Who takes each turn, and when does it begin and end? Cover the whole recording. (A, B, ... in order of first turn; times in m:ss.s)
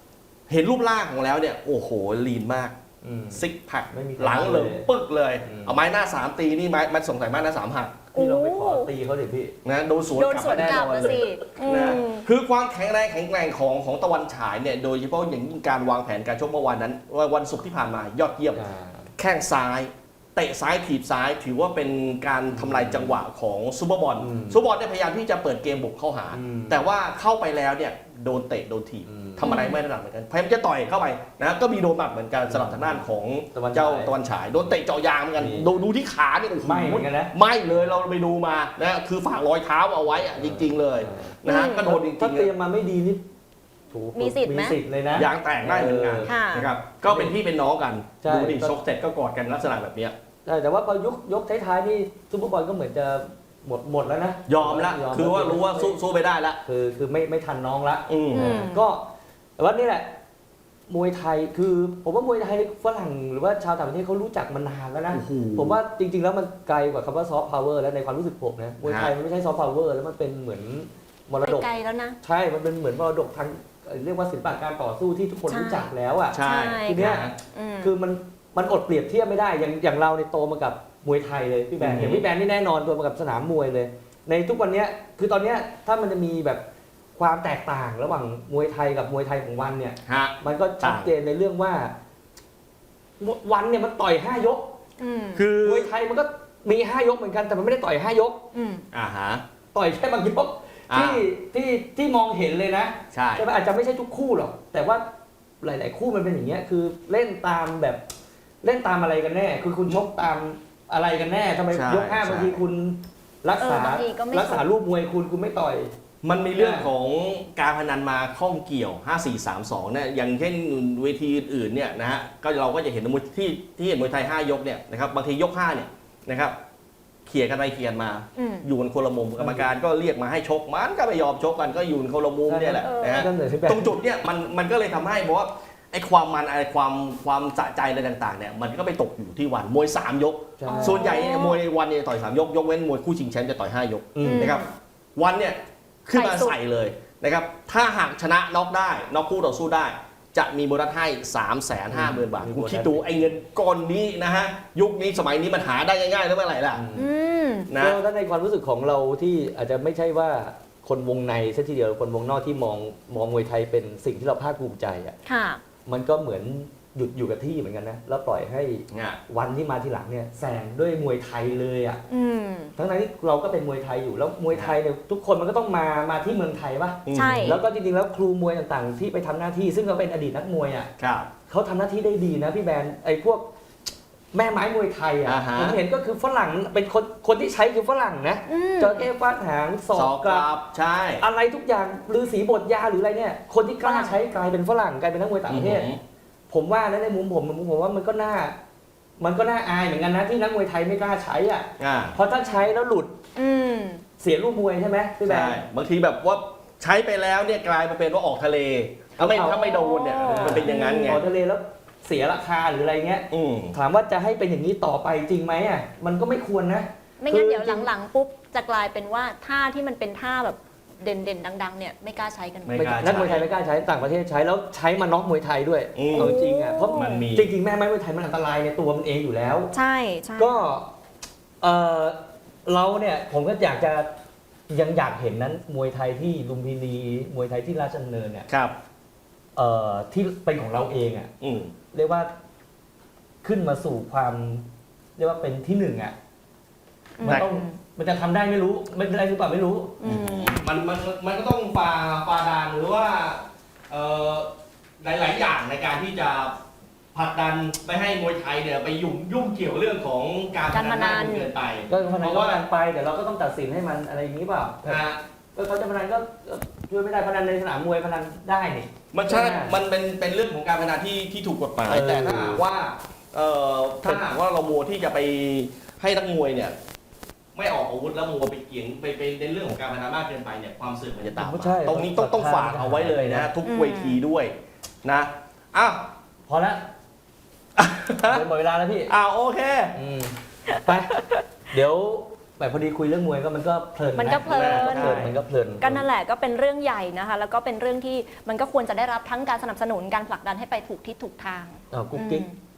0:00.5-0:02.8 A
0:03.0-0:04.9 B
0:03.3-0:08.0 A
0:05.4-0:05.8 B
0:08.1-0:08.9 C
0:08.1-0:09.6 B
0:09.6-0:18.6 A
0:10.1-0:12.2 C
0:10.4-0:11.2 B
0:18.5-0:19.1 B
0:19.2-0:42.5 A
0:22.5-0:23.2 B
0:24.2-0:24.6 B
0:26.3-0:26.8 B
0:29.0-0:29.5 B
0:29.4-0:29.8 C
0:32.4-0:34.2 B
0:35.4-0:35.8 B
0:36.6-0:37.8 B
0:40.3-0:43.2 B
0:41.4-0:41.8 C
0:43.9-0:46.3 B
0:44.1-0:44.8 C
0:45.1-0:50.2 A
0:46.2-0:46.7 C
0:47.0-0:47.3 B
0:48.2-0:48.8 B
0:50.4-0:56.0 B
0:54.5-0:56.6 A
0:56.6-1:00.2 B
0:58.1-0:58.5 A
0:58.3-0:58.8 C
1:00.9-1:11.7 B
1:05.1-1:05.8 A
1:08.8-1:09.1 A
1:11.4-1:12.2 C
1:12.2-1:26.6 B
1:15.5-1:15.9 C
1:16.3-1:17.3 A
1:16.4-1:17.9 C
1:21.8-1:22.2 A
1:27.2-1:31.9 B
1:30.1-1:31.1 A
1:33.2-1:34.7 B
1:35.0-1:35.4 C
1:35.3-1:35.9 A
1:35.6-1:38.4 B
1:38.5-1:38.8 C
1:38.9-1:39.4 A
1:39.7-1:45.0 B
1:40.9-1:41.2 A
1:43.1-1:43.5 A
1:45.6-1:48.0 B
1:48.6-1:55.9 B
1:51.7-1:52.6 A
1:53.6-1:54.6 C
1:56.2-2:06.5 A
1:56.5-1:56.9 B
2:07.2-2:36.8 A
2:08.4-2:08.6 C
2:09.4-2:09.7 B
2:12.5-2:14.0 B
2:12.8-2:13.3 C
2:20.6-2:21.1 B
2:20.6-2:21.6 C
2:24.1-2:24.5 B
2:24.2-2:24.7 C
2:26.1-2:26.6 C
2:31.9-2:33.1 B
2:36.7-2:37.1 B
2:36.9-2:37.7 C
2:37.7-2:38.0 A
2:37.8-2:45.1 B
2:45.2-2:45.6 C
2:45.8-2:52.0 B
2:48.9-2:49.2 A
2:52.1-2:52.7 C
2:52.8-3:00.9 B
2:54.5-2:54.8 A
2:57.0-2:57.6 A
2:57.1-2:57.6 C
3:01.0-3:01.3 A
3:01.5-3:03.5 B
3:04.3-3:10.5 B
3:05.2-3:05.8 A
3:08.5-3:09.1 C
3:09.9-3:11.2 A
3:11.2-3:15.9 B
3:13.8-3:14.2 C
3:15.5-3:16.0 A
3:16.5-3:18.6 B
3:19.2-3:23.1 B
3:21.8-3:22.2 A
3:23.4-3:24.0 C
3:24.2-3:25.6 B
3:25.3-3:31.2 A
3:29.2-3:37.9 B
3:29.6-3:31.2 C
3:33.3-3:33.8 A
3:37.2-3:43.2 C
3:42.6-3:43.5 A
3:43.0-3:49.7 B
3:46.0-3:46.3 A
3:46.1-3:47.2 C
3:46.9-3:47.5 A
3:49.7-3:50.7 C
3:50.4-3:50.9 B
3:51.6-3:54.1 B
3:54.7-3:58.5 B
3:58.5-3:58.8 A
3:59.6-4:01.3 B
4:01.4-4:01.7 A
4:01.9-4:02.3 B
4:03.4-4:06.1 B
4:07.2-4:07.8 C
4:07.2-4:10.0 B
4:10.0-4:10.7 C
4:10.0-4:16.6 A
4:17.1-4:22.6 A
4:20.7-4:22.1 C
4:21.9-4:25.0 B
4:24.8-4:25.2 A
4:25.5-4:29.8 B
4:29.1-4:36.7 A
4:31.9-4:32.6 B
4:34.0-4:34.3 B
4:37.5-4:46.1 A
4:41.3-4:43.5 B
4:43.6-4:44.2 C
4:46.5-4:46.8 B
4:47.8-4:48.4 A
4:48.2-4:49.1 B
4:49.1-4:50.0 A
4:49.9-4:51.2 B
4:50.7-4:51.4 C
4:51.7-4:56.0 B
4:54.2-4:55.3 C
4:54.5-4:55.3 A
4:55.8-5:02.6 C
5:01.9-5:02.4 B